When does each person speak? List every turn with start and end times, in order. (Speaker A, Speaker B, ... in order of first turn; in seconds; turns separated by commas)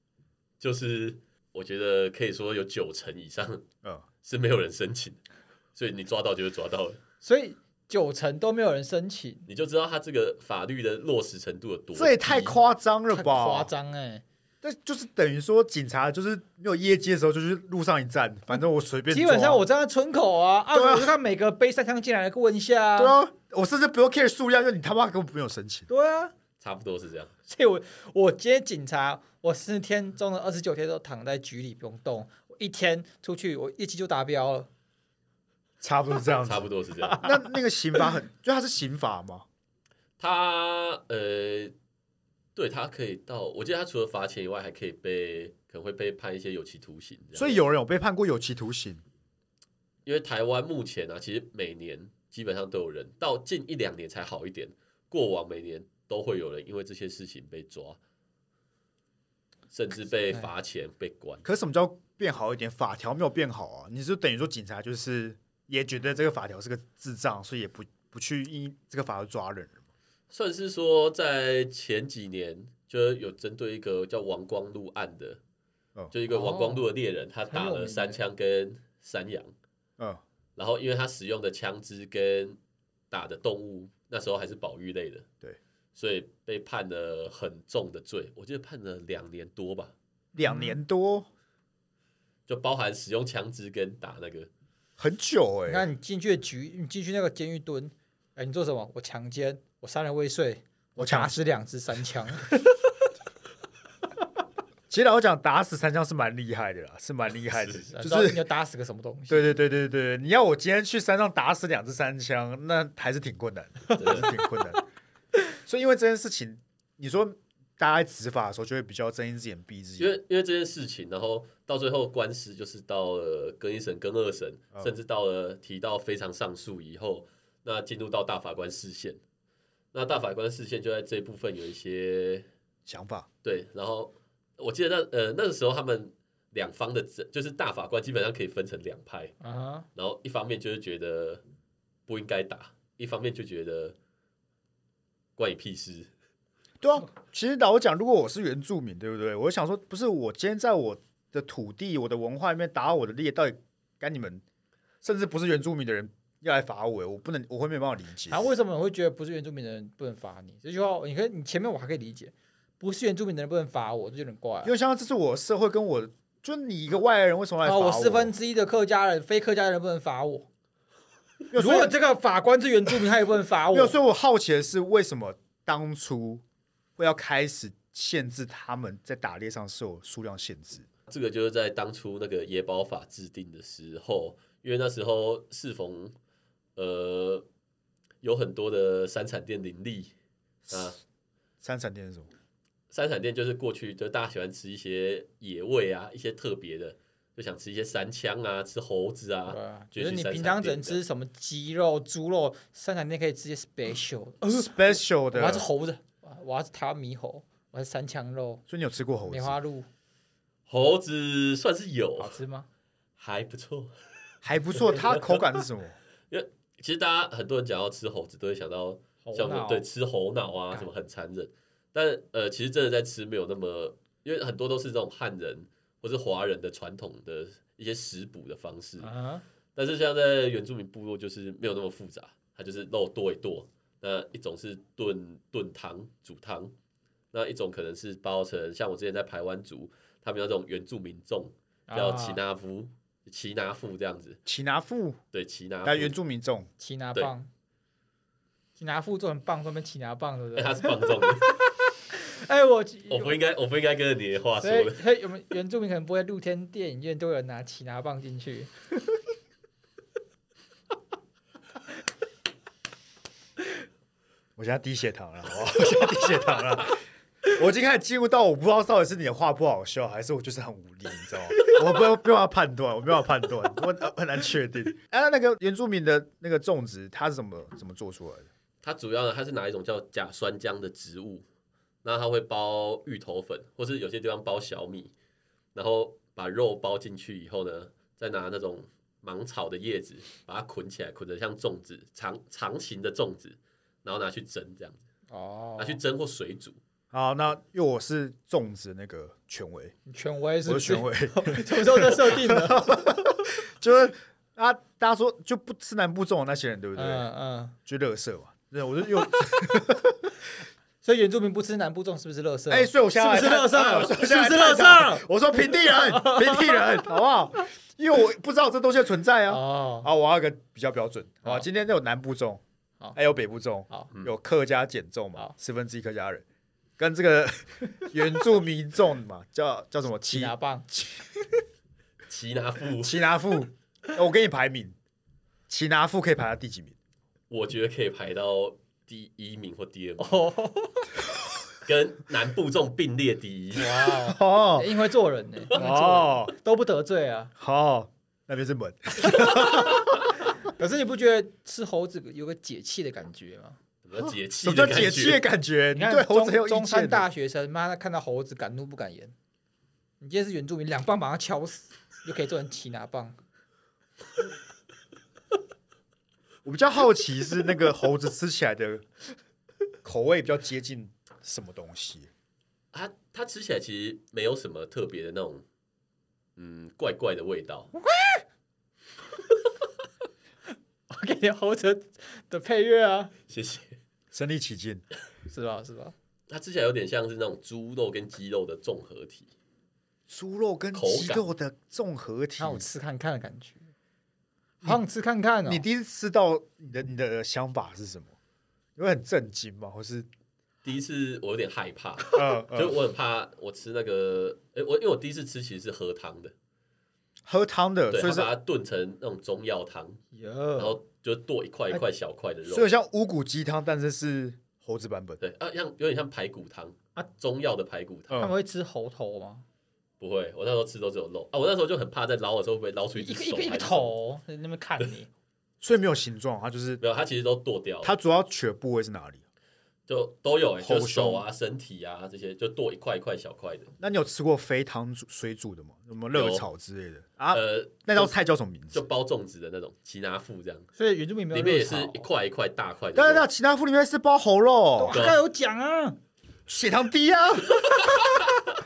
Speaker A: 0.6-3.6, Speaker A: 4.2-5.2, Speaker A: 5.8-7.0, Speaker B: 7.2-9.4, Speaker A: 9.5-12.6, Speaker C: 11.9-13.7, Speaker B: 13.1-14.2, Speaker C: 14.6-19.6, Speaker B: 19.1-23.2, Speaker C: 20.7-21.1, Speaker C: 23.0-25.9, Speaker B: 25.9-26.3, Speaker A: 26.6-27.3, Speaker B: 27.5-34.7, Speaker C: 35.8-39.5, Speaker A: 36.3-37.3, Speaker B: 37.0-37.3, Speaker A: 40.2-41.7, Speaker A: 42.5-47.6, Speaker C: 47.4-49.0, Speaker A: 50.0-58.0, Speaker A: 59.7-61.4, Speaker C: 61.4-69.8, Speaker A: 70.3-75.4, Speaker A: 76.1-79.5, Speaker B: 76.3-76.9, Speaker B: 77.5-78.2, Speaker A: 80.5-82.6, Speaker A: 83.1-85.3, Speaker A: 86.0-89.9, Speaker C: 90.3-91.3, Speaker B: 90.4-90.8, Speaker A: 92.5-94.5, Speaker C: 95.0-95.8, Speaker B: 95.7-102.8, Speaker C: 101.0-101.4, Speaker C: 104.9-108.4, Speaker A: 107.5-107.9, Speaker B: 107.9-109.5, Speaker C: 109.3-114.8, Speaker B: 113.9-114.2, Speaker A: 114.0-114.3, Speaker C: 115.7-120.2, Speaker A: 120.0-129.2, Speaker A: 129.9-132.5, Speaker C: 132.8-133.3, Speaker A: 133.4-139.3, Speaker B: 139.4-139.9, Speaker A: 139.9-141.4, Speaker A: 142.1-143.9, Speaker A: 145.4-146.1, Speaker C: 146.8-154.4, Speaker C: 155.0-158.4, Speaker B: 158.3-164.7, Speaker C: 164.6-168.3, Speaker B: 167.6-170.5, Speaker C: 171.5-171.9, Speaker B: 171.5-173.9, Speaker C: 173.7-176.4, Speaker C: 177.0-180.9, Speaker A: 181.1-186.1, Speaker A: 186.8-187.4, Speaker A: 188.2-190.1, Speaker A: 190.7-191.0, Speaker C: 191.6-192.3, Speaker A: 192.9-201.0, Speaker B: 199.5-208.6, Speaker C: 204.5-205.7, Speaker C: 208.7-209.6, Speaker B: 209.3-209.9, Speaker A: 210.7-212.4, Speaker B: 212.2-212.7, Speaker A: 213.2-213.9, Speaker C: 214.4-215.9, Speaker A: 214.8-215.4, Speaker A: 216.3-229.1, Speaker B: 219.2-219.8, Speaker B: 229.0-229.4, Speaker A: 229.7-236.7, Speaker A: 237.3-244.4, Speaker B: 241.9-242.4, Speaker C: 244.4-245.2, Speaker A: 245.3-246.1, Speaker C: 245.8-246.7, Speaker B: 246.8-247.5, Speaker B: 248.8-253.4, Speaker A: 250.6-251.6, Speaker A: 253.1-255.0, Speaker B: 254.6-258.7, Speaker C: 264.6-278.5, Speaker A: 278.8-281.4, Speaker A: 282.0-285.1, Speaker A: 285.7-295.0, Speaker B: 295.3-296.0, Speaker A: 295.8-296.8, Speaker C: 297.1-299.9, Speaker B: 300.1-303.3, Speaker C: 300.6-307.3, Speaker B: 306.9-307.8, Speaker C: 307.9-310.3, Speaker B: 311.0-317.1, Speaker C: 312.7-322.6, Speaker B: 319.5-320.1, Speaker C: 323.1-326.4, Speaker C: 327.0-331.2, Speaker B: 330.2-330.9, Speaker A: 332.3-333.2, Speaker C: 333.0-334.9, Speaker C: 335.7-336.9, Speaker A: 337.5-340.4, Speaker B: 340.2-341.1, Speaker A: 341.8-344.1, Speaker B: 343.8-347.5, Speaker C: 344.2-344.9, Speaker C: 345.7-346.5, Speaker C: 347.6-350.1, Speaker B: 349.3-349.8, Speaker B: 350.6-353.8, Speaker A: 354.0-355.4, Speaker C: 354.6-357.3, Speaker B: 355.9-359.3, Speaker B: 360.2-363.4, Speaker C: 366.6-369.1, Speaker C: 370.0-372.3, Speaker A: 372.9-375.6, Speaker A: 376.6-377.9, Speaker B: 378.0-378.4, Speaker B: 381.1-383.3, Speaker A: 383.5-384.0, Speaker C: 384.3-385.0, Speaker B: 385.5-386.1, Speaker A: 386.5-389.5, Speaker C: 390.3-392.9, Speaker A: 390.9-391.4, Speaker B: 392.6-393.9, Speaker B: 394.8-395.8, Speaker C: 395.6-398.3, Speaker C: 398.9-400.3, Speaker A: 400.8-406.5, Speaker C: 402.3-403.0, Speaker C: 407.4-408.5, Speaker A: 408.1-410.2, Speaker B: 410.3-411.0, Speaker A: 410.8-412.9, Speaker C: 412.7-415.4, Speaker A: 415.4-418.4, Speaker C: 418.3-418.5, Speaker B: 418.4-419.6, Speaker A: 420.2-424.1, Speaker B: 423.1-425.3, Speaker C: 425.8-427.0, Speaker A: 427.0-428.1, Speaker C: 428.0-429.4, Speaker A: 430.1-433.9, Speaker C: 430.8-431.4, Speaker C: 434.0-439.0, Speaker A: 436.3-436.6, Speaker A: 437.5-438.3, Speaker A: 438.9-440.9, Speaker B: 441.0-442.2, Speaker A: 441.5-443.4, Speaker C: 443.1-445.2, Speaker B: 445.0-446.2, Speaker A: 445.1-445.4, Speaker C: 446.7-448.1